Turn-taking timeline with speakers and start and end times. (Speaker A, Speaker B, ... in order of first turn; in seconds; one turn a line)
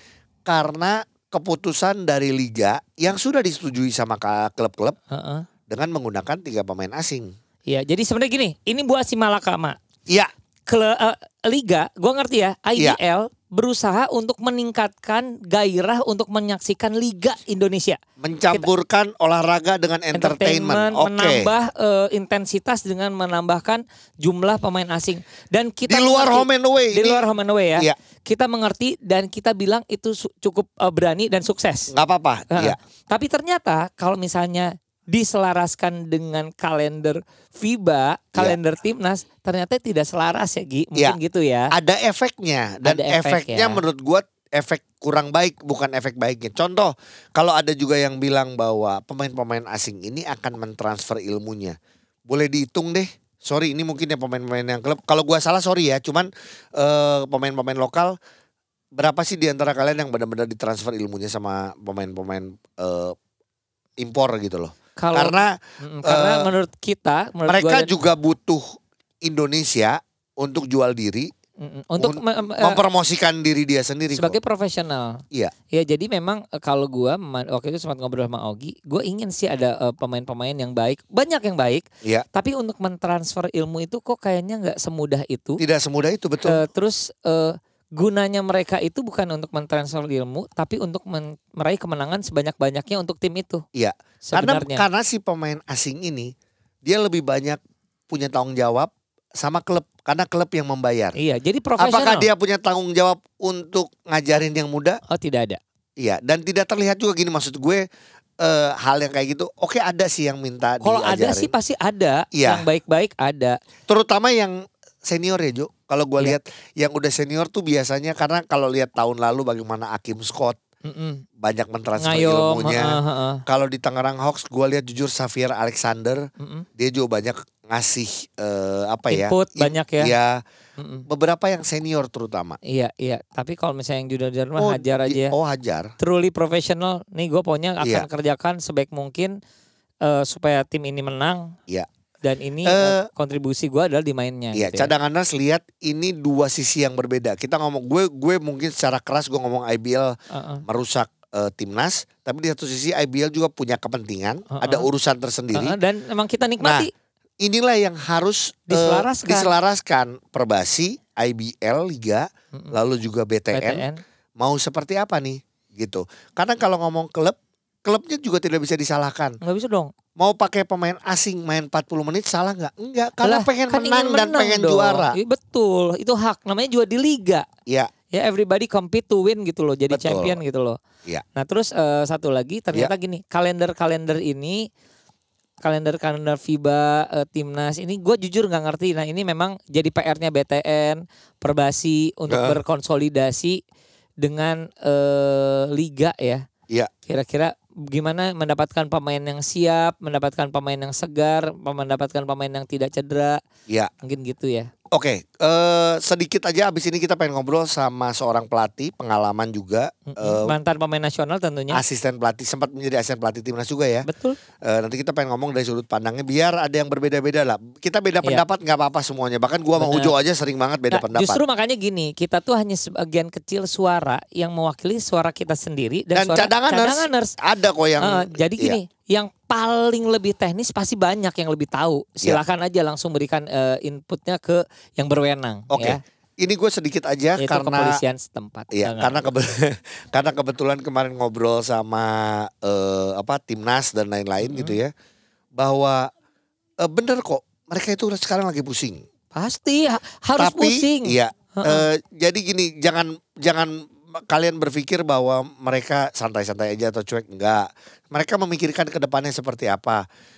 Speaker A: 0.5-5.0
Speaker B: 5.1-5.4
Speaker A: 5.7-7.3
Speaker B: 7.7-9.8
Speaker B: 10.7-18.0
Speaker A: 18.2-21.5
Speaker B: 20.1-31.9
Speaker A: 25.9-27.2
Speaker A: 31.9-32.8
Speaker B: 32.5-41.7
Speaker A: 41.7-51.8
Speaker B: 42.8-43.8
Speaker A: 52.3-58.1
Speaker A: 59.0-63.1
Speaker A: 64.0-66.5
Speaker B: 65.0-67.9
Speaker A: 67.5-68.6
Speaker A: 69.2-71.3
Speaker B: 71.6-72.8
Speaker A: 72.0-74.3
Speaker B: 74.1-75.2
Speaker B: 75.7-85.6
Speaker A: 85.6-86.6
Speaker B: 86.5-93.6
Speaker A: 93.7-96.3
Speaker B: 94.2-94.8
Speaker A: 96.8-101.1
Speaker B: 101.2-102.3
Speaker A: 101.8-105.0
Speaker B: 105.1-105.6
Speaker A: 106.0-107.8
Speaker A: 108.4-111.5
Speaker B: 110.8-113.6
Speaker A: 112.3-112.7
Speaker A: 113.9-120.6
Speaker B: 120.8-121.2
Speaker A: 121.4-126.2
Speaker B: 122.0-123.4
Speaker B: 126.4-126.7
Speaker A: 126.8-130.4
Speaker B: 129.1-130.1
Speaker B: 130.8-131.0
Speaker A: 131.1-132.6
Speaker B: 132.7-135.3
Speaker A: 134.6-135.9
Speaker B: 136.0-139.3
Speaker A: 137.8-138.1
Speaker B: 140.0-141.5
Speaker B: 142.2-144.9
Speaker A: 142.6-143.1
Speaker A: 144.5-150.1
Speaker B: 150.3-150.6
Speaker A: 150.7-155.8
Speaker B: 154.5-154.9
Speaker B: 155.5-156.9
Speaker A: 156.6-156.9
Speaker A: 157.4-163.8
Speaker B: 158.7-159.5
Speaker B: 163.5-164.0
Speaker A: 164.4-169.3
Speaker B: 169.4-169.9
Speaker A: 170.2-175.2
Speaker B: 173.2-177.4
Speaker B: 178.1-180.8
Speaker A: 179.9-180.3
Speaker B: 181.3-184.6
Speaker B: 185.6-193.6
Speaker A: 192.3-192.6
Speaker B: 194.2-196.4
Speaker B: 197.1-203.4
Speaker B: 204.0-204.7
Speaker A: 204.9-210.5
Speaker B: 210.1-211.8
Speaker A: 211.7-214.1
Speaker B: 214.1-214.4
Speaker A: 214.6-221.4
Speaker B: 219.8-220.1
Speaker B: 220.9-227.3
Speaker A: 226.1-228.8
Speaker B: 228.0-236.0
Speaker A: 235.7-238.0
Speaker B: 237.4-239.2
Speaker A: 238.7-244.9
Speaker B: 244.4-244.8
Speaker A: 245.6-246.1
Speaker A: 246.8-249.0
Speaker B: 249.3-251.8
Speaker A: 250.4-260.0